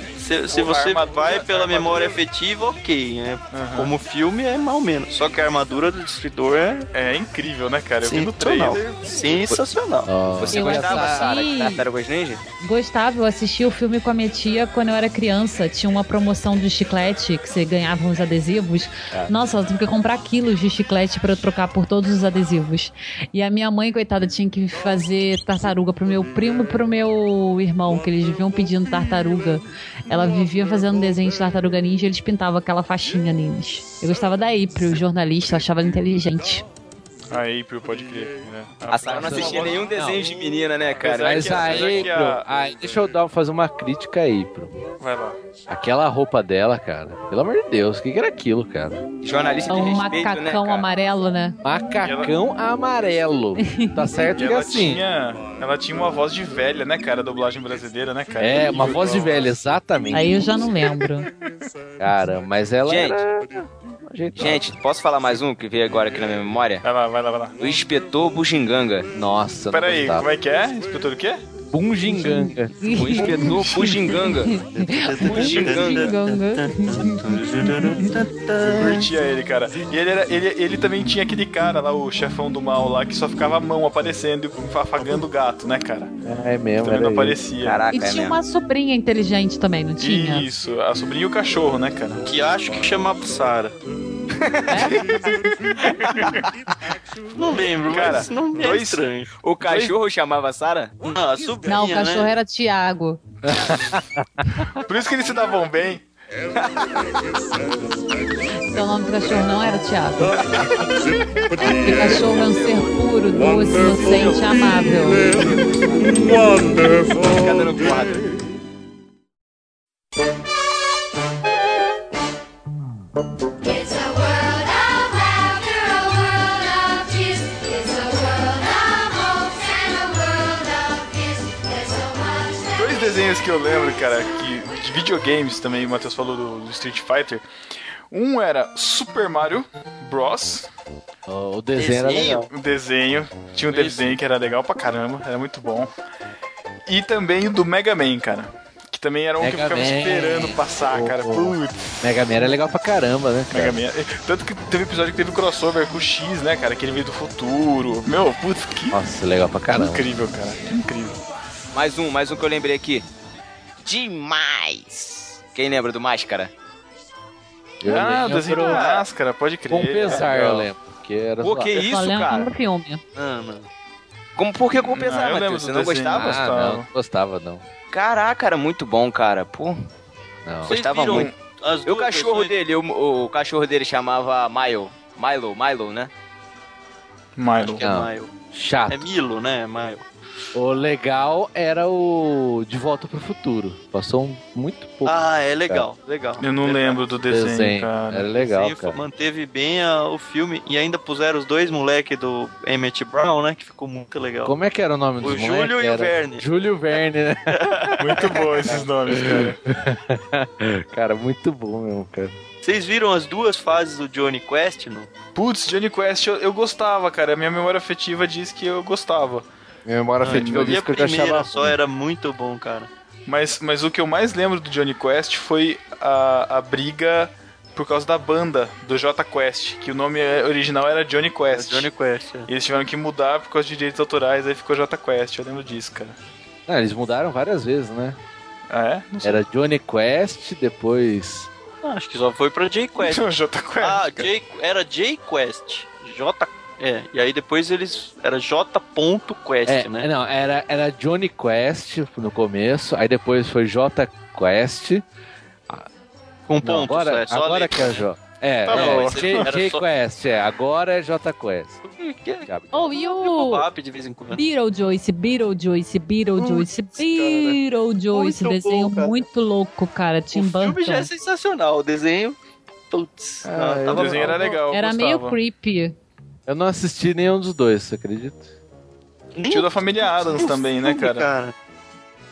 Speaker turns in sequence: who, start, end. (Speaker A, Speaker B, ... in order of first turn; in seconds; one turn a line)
Speaker A: 0.1-6.9
Speaker B: 0.5-2.2
Speaker B: 3.5-3.9
Speaker B: 6.9-9.0
Speaker A: 8.0-10.1
Speaker C: 10.0-11.3
Speaker D: 10.3-12.4
Speaker E: 10.5-11.8
Speaker E: 12.6-36.6
Speaker B: 37.3-39.9
Speaker D: 38.9-42.0
Speaker C: 39.1-40.2
Speaker B: 41.0-42.5
Speaker C: 41.1-44.8
Speaker B: 45.0-45.4
Speaker C: 45.7-49.0
Speaker D: 49.2-50.9
Speaker E: 49.7-51.6
Speaker C: 51.6-55.0
Speaker B: 52.0-52.3
Speaker E: 53.6-54.0
Speaker B: 54.3-59.5
Speaker C: 58.4-60.7
Speaker E: 60.1-61.3
Speaker C: 62.0-64.7
Speaker D: 62.9-63.2
Speaker D: 64.3-66.8
Speaker B: 66.8-67.6
Speaker D: 67.6-69.1
Speaker C: 69.1-70.3
Speaker B: 69.7-71.4
Speaker C: 71.7-72.7
Speaker E: 72.1-78.1
Speaker D: 72.9-74.5
Speaker B: 73.4-73.9
Speaker A: 74.7-79.0
Speaker D: 75.2-76.1
Speaker B: 78.6-86.1
Speaker C: 86.2-87.4
Speaker B: 86.8-87.8
Speaker D: 87.6-88.4
Speaker E: 87.9-90.5
Speaker B: 90.0-92.2
Speaker A: 92.2-93.8
Speaker D: 94.4-95.2
Speaker E: 94.7-95.1
Speaker B: 95.2-96.5
Speaker A: 97.3-99.3
Speaker B: 97.8-99.0
Speaker D: 99.4-100.9
Speaker A: 101.0-102.3
Speaker E: 101.7-103.2
Speaker C: 103.4-104.7
Speaker B: 104.7-106.1
Speaker D: 106.7-107.0
Speaker E: 108.7-110.4
Speaker E: 111.6-115.3
Speaker D: 112.3-112.8
Speaker D: 115.4-116.3
Speaker D: 117.1-118.3
Speaker F: 123.6-133.2
Speaker B: 132.7-137.4
Speaker B: 138.1-140.7
Speaker C: 141.3-142.5
Speaker A: 141.8-142.5
Speaker B: 142.5-145.9
Speaker A: 143.7-144.1
Speaker B: 146.9-152.0
Speaker C: 149.4-153.8
Speaker B: 153.5-159.0
Speaker C: 158.9-160.1
Speaker B: 159.7-161.2
Speaker D: 161.7-163.1
Speaker D: 163.8-166.5
Speaker C: 167.8-168.8
Speaker B: 167.8-170.7
Speaker D: 168.5-169.0
Speaker C: 169.7-171.8
Speaker D: 171.4-172.5
Speaker E: 171.8-173.0
Speaker A: 173.1-173.7
Speaker D: 174.3-176.4
Speaker B: 174.8-176.9
Speaker C: 176.1-177.7
Speaker D: 177.9-179.8
Speaker C: 180.4-180.8
Speaker A: 180.7-182.5
Speaker D: 180.7-181.3
Speaker B: 181.1-181.3
Speaker D: 181.8-186.1
Speaker B: 187.3-187.9
Speaker A: 187.6-188.3
Speaker C: 187.8-189.0
Speaker A: 188.9-190.1
Speaker C: 190.5-195.9
Speaker A: 195.0-197.1
Speaker B: 196.4-198.3
Speaker C: 197.3-199.0
Speaker A: 198.3-204.5
Speaker C: 204.4-212.4
Speaker A: 205.2-206.4
Speaker A: 207.5-208.9
Speaker B: 208.0-209.6
Speaker A: 212.6-215.1
Speaker B: 215.3-219.4
Speaker C: 219.8-221.8
Speaker B: 220.2-220.8
Speaker A: 220.2-222.9
Speaker B: 223.2-231.9
Speaker A: 231.5-232.5
Speaker B: 232.5-236.2
Speaker C: 236.7-238.2
Speaker B: 238.7-239.4
Speaker C: 239.2-241.5
Speaker A: 241.8-243.2
Speaker B: 243.0-244.3
Speaker A: 243.8-250.1
Speaker C: 249.6-255.0
Speaker A: 256.5-258.1
Speaker C: 256.6-261.8
Speaker B: 258.6-259.5
Speaker A: 258.7-259.8
Speaker A: 261.9-264.4
Speaker C: 262.4-262.9
Speaker E: 262.7-263.6
Speaker E: 264.3-271.1
Speaker A: 266.4-267.6
Speaker A: 268.1-269.2
Speaker A: 270.3-274.5
Speaker C: 273.4-274.6
Speaker B: 273.9-275.4
Speaker E: 274.7-275.9
Speaker C: 276.4-278.5
Speaker A: 279.4-281.5
Speaker B: 279.5-281.3